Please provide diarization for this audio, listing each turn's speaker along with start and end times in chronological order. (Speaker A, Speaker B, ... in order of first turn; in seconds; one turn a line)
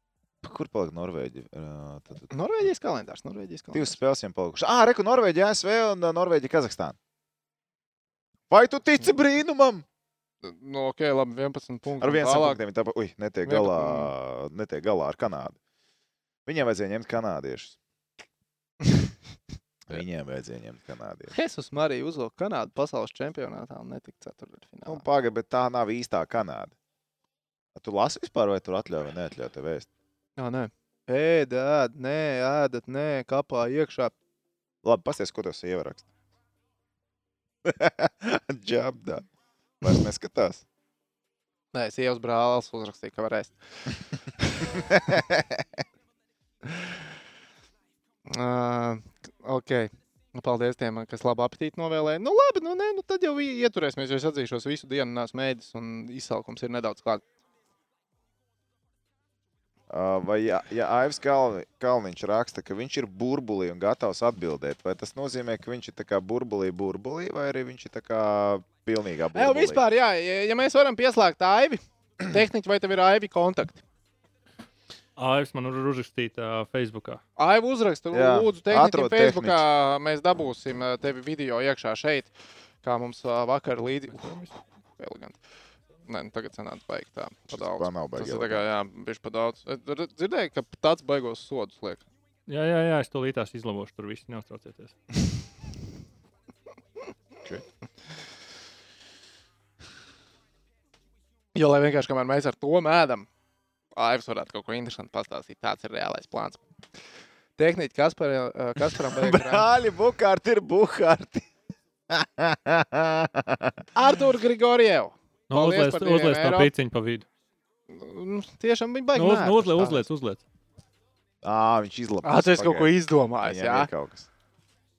Speaker A: 0.4-2.3
Speaker B: 2.3-4.0
Speaker A: 3.7-7.0
Speaker A: 8.5-9.8
Speaker B: 10.4-12.6
Speaker A: 12.0-15.6
Speaker B: 13.4-14.1
Speaker A: 16.5-17.8
Speaker A: 19.9-21.3
Speaker B: 21.3-25.1
Speaker A: 24.9-26.7
Speaker A: 27.8-29.9
Speaker B: 30.4-34.1
Speaker A: 34.8-36.1
Speaker A: 37.6-39.3
Speaker A: 39.8-40.6
Speaker B: 41.7-43.5
Speaker A: 44.9-45.6
Speaker B: 48.3-57.2
Speaker A: 59.9-69.8
Speaker B: 69.3-73.8
Speaker C: 75.2-77.2
Speaker B: 77.4-82.3
Speaker A: 78.1-79.7
Speaker B: 82.8-84.5
Speaker C: 84.2-84.5
Speaker B: 85.0-85.4
Speaker B: 86.1-92.0
Speaker A: 87.5-88.6
Speaker C: 92.5-94.9
Speaker B: 101.5-103.3
Speaker B: 104.0-106.6
Speaker B: 107.6-109.7
Speaker A: 109.0-111.5
Speaker A: 112.1-113.9
Speaker B: 114.0-116.7
Speaker C: 115.5-117.2
Speaker B: 117.9-120.0
Speaker C: 119.2-120.4
Speaker A: 121.4-124.3
Speaker B: 122.2-123.9